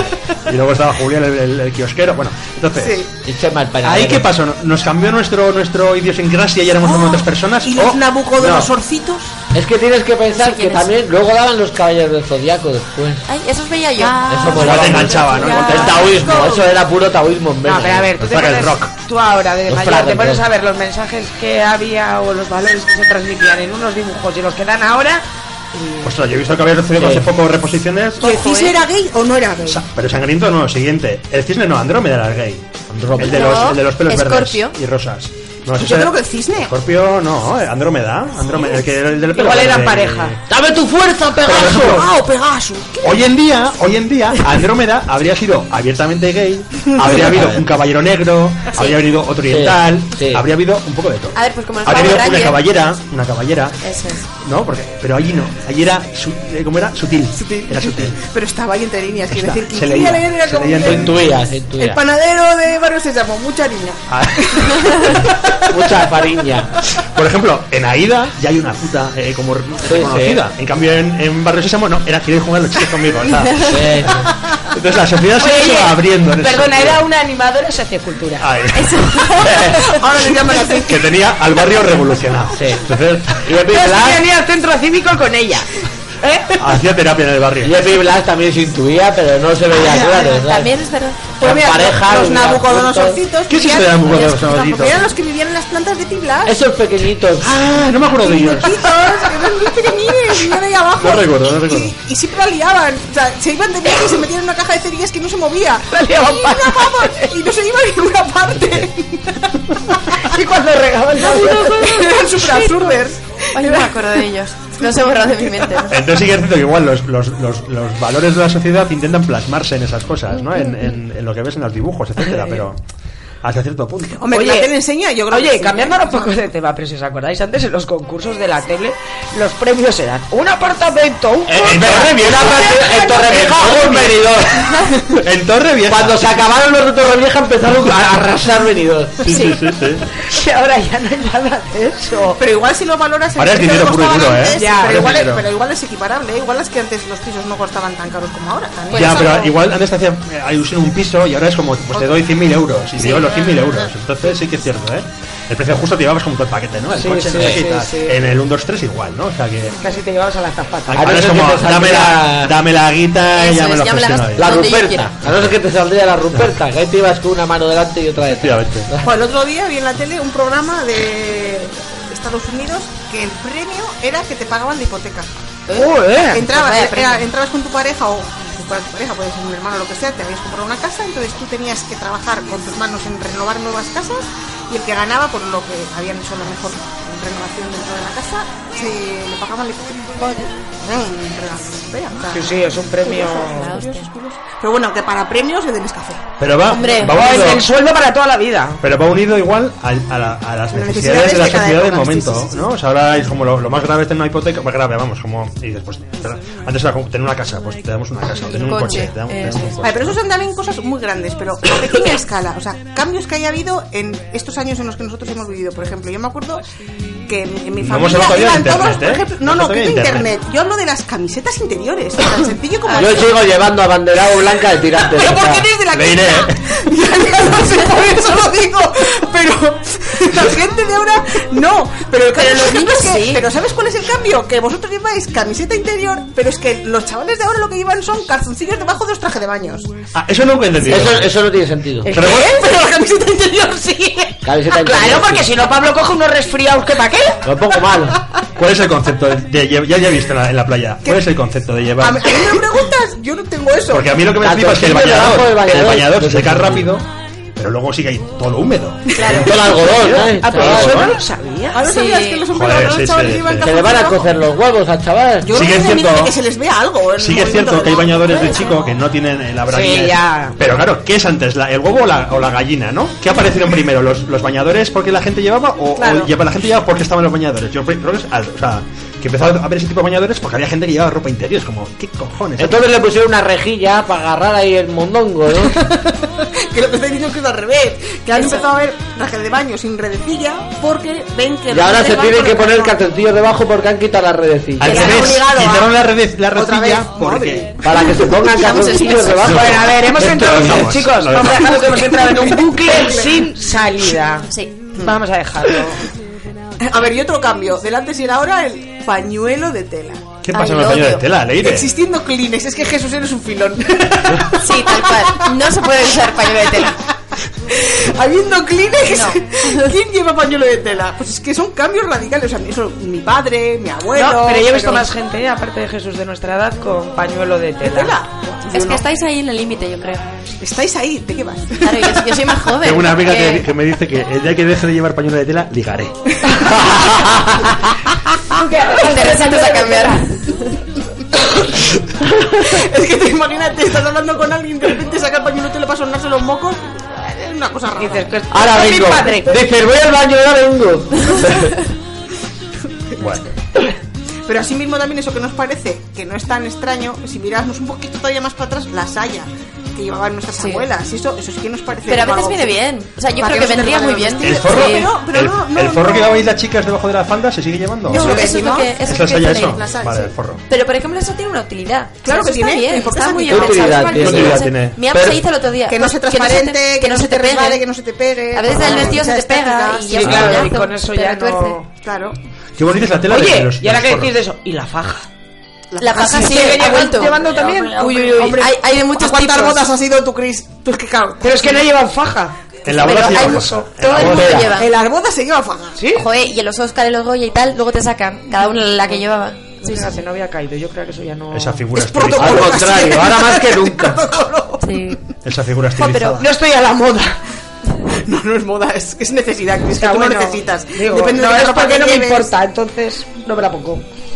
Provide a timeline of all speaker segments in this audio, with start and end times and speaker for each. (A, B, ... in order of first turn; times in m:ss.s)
0:00.5-0:03.1 A
0:02.8-0:03.1 B
0:03.2-0:04.3 C
0:03.8-0:08.0 A
0:06.8-0:09.3 B
0:08.4-0:08.7 C
0:09.5-0:13.2 C
0:10.4-0:10.9 D
0:13.3-0:16.0 D
0:14.0-0:16.7 B
0:14.2-0:18.1 C
0:14.5-0:15.9 A
0:17.6-0:26.1 E
0:18.2-0:18.9 A
0:19.7-0:20.4 C
0:26.0-0:28.4 A
0:27.0-0:27.3 C
0:28.2-0:29.8 B
0:28.3-0:28.8 D
0:29.6-0:40.4 A
0:32.9-0:33.6 C
0:33.2-0:34.7 D
0:35.8-0:36.7 B
0:39.3-0:40.3 E
0:40.5-0:42.1 C
0:41.4-0:42.0 A
0:41.5-0:43.2 B
0:43.0-0:58.2 A
0:47.0-0:47.6 C
0:49.5-0:50.4 C
0:51.3-0:52.6 D
0:53.8-0:54.3 D
0:57.4-1:06.1 B
0:59.3-1:01.3 A
1:00.8-1:02.0 C
1:04.1-1:05.0 A
1:05.7-1:06.7 C
1:07.0-1:13.8 A
1:09.8-1:10.5 C
1:13.7-1:14.3 C
1:14.7-1:17.0 A
1:15.4-1:18.5 E
1:18.4-1:19.1 A
1:18.7-1:19.6 D
1:19.4-1:19.8 C
1:19.8-1:21.2 B
1:20.9-1:23.4 A
1:22.5-1:24.2 C
1:23.7-1:25.7 E
1:26.2-1:26.6 E
1:26.6-1:27.7 A
1:27.6-1:30.7 C
1:29.8-1:30.4 B
1:30.3-1:31.4 D
1:31.4-1:33.2 C
1:31.4-1:36.5 B
1:33.5-1:35.1 A
1:36.4-1:37.6 C
1:37.4-1:39.1 A
1:38.2-1:50.4 B
1:41.0-1:41.9 A
1:45.9-1:47.3 E
1:50.2-1:52.2 E
1:51.2-1:54.3 B
1:52.6-1:52.9 D
1:53.5-1:56.0 D
1:54.8-1:55.8 B
1:55.9-2:02.8 A
2:02.2-2:02.6 E
2:03.4-2:04.2 A
2:04.1-2:06.3 B
2:04.3-2:04.7 E
2:05.3-2:12.4 E
2:11.5-2:14.7 C
2:11.5-2:14.1 A
2:12.6-2:14.7 B
2:15.1-2:16.3 A
2:15.9-2:19.3 C
2:19.2-2:20.0 A
2:19.3-2:19.6 E
2:20.1-2:22.4 E
2:22.4-2:29.5 B
2:23.4-2:25.5 A
2:24.5-2:25.2 E
2:28.9-2:29.6 D
2:28.9-2:39.8 A
2:33.0-2:33.3 D
2:33.0-2:33.8 B
2:37.0-2:38.3 E
2:39.8-2:41.1 E
2:40.9-2:44.6 A
2:41.0-2:42.6 C
2:43.3-2:45.1 D
2:44.4-2:49.1 C
2:45.2-2:45.6 A
2:48.2-2:48.9 A
2:49.0-2:55.3 B
2:55.7-2:57.2 D
2:55.7-2:56.4 E
2:56.3-3:16.3 B
3:12.3-3:13.8 E
3:13.0-3:14.1 D
3:16.4-3:17.6 A
3:16.7-3:17.2 D
3:17.0-3:18.8 E
3:18.8-3:30.2 A
3:20.7-3:22.7 B
3:28.5-3:29.8 D
3:29.8-3:36.6 B
3:37.3-3:43.3 B
3:37.8-3:40.3 A
3:42.8-3:43.2 D
3:43.0-3:45.7 C
3:45.1-3:59.9 B
3:45.9-3:46.6 A
3:52.3-3:53.4 D
4:00.1-4:01.4 A
4:00.8-4:01.2 B
4:00.9-4:02.1 C
4:02.0-4:02.4 E
4:02.1-4:02.6 A
4:02.1-4:04.4 B
4:04.4-4:05.5 C
4:04.7-4:07.5 E
4:07.4-4:08.2 C
4:08.6-4:12.5 A
4:12.0-4:14.2 B
4:13.9-4:21.2 A
4:14.4-4:16.9 C
4:19.2-4:19.6 D
4:19.2-4:21.1 C
4:19.8-4:21.8 E
4:21.7-4:24.3 B
4:21.8-4:22.5 D
4:22.5-4:23.8 A
4:23.6-4:25.8 C
4:25.4-4:28.9 B
4:25.5-4:26.4 A
4:27.2-4:42.8 A
4:28.2-4:28.7 D
4:29.7-4:30.6 E
4:36.0-4:36.3 E
4:42.6-4:45.9 C
4:45.8-4:53.0 B
4:48.4-4:48.6 D
4:51.7-4:55.2 C
4:54.8-4:57.7 A
4:54.8-4:56.0 B
4:54.9-4:55.3 D
4:56.5-4:59.7 B
4:57.8-5:00.9 C
4:58.5-4:59.3 D
4:59.4-5:01.9 A
4:59.4-5:06.0 E
5:01.6-5:03.4 B
5:06.8-5:10.4 B
5:10.4-5:11.9 A
5:10.5-5:11.2 D
5:11.6-5:17.0 B
5:14.6-5:17.0 D
5:17.7-5:25.1 B
5:19.1-5:19.9 D
5:24.1-5:28.2 E
5:27.8-5:29.0 B
5:28.7-5:30.3 D
5:30.6-5:32.6 B
5:31.8-5:33.7 D
5:32.8-5:36.2 A
5:36.9-5:37.4 C
5:38.5-5:40.3 E
5:38.9-5:40.8 D
5:41.4-5:41.8 B
5:42.4-5:42.8 C
5:42.5-5:48.3 B
5:48.0-5:49.6 E
5:48.5-5:51.9 C
5:53.1-5:53.4 B
5:53.2-5:53.4 A
5:54.4-6:02.8 B
6:00.6-6:00.8 D
6:02.1-6:05.1 D
6:03.4-6:06.5 B
6:04.4-6:10.6 A
6:08.1-6:10.3 B
6:08.1-6:09.8 D
6:10.7-6:17.8 D
6:12.2-6:14.5 B
6:13.5-6:15.4 C
6:14.1-6:15.0 A
6:15.9-6:20.7 B
6:18.5-6:21.8 D
6:20.1-6:21.9 E
6:22.0-6:22.4 B
6:22.8-6:24.3 A
6:23.3-6:25.3 E
6:25.9-6:31.8 B
6:26.0-6:27.5 D
6:26.1-6:28.6 E
6:28.2-6:29.9 D
6:31.4-6:32.5 E
6:32.8-6:34.6 A
6:32.9-6:34.9 D
6:33.0-6:36.0 B
6:34.2-6:34.7 C
6:36.0-6:36.3 E
6:36.1-6:40.2 D
6:39.8-6:42.2 E
6:41.5-6:42.9 A
6:41.9-6:45.1 B
6:42.4-6:44.2 C
6:44.8-6:45.2 D
6:45.4-6:46.5 A
6:46.0-6:46.4 D
6:46.4-6:47.4 E
6:48.1-6:52.5 B
6:50.0-6:54.0 E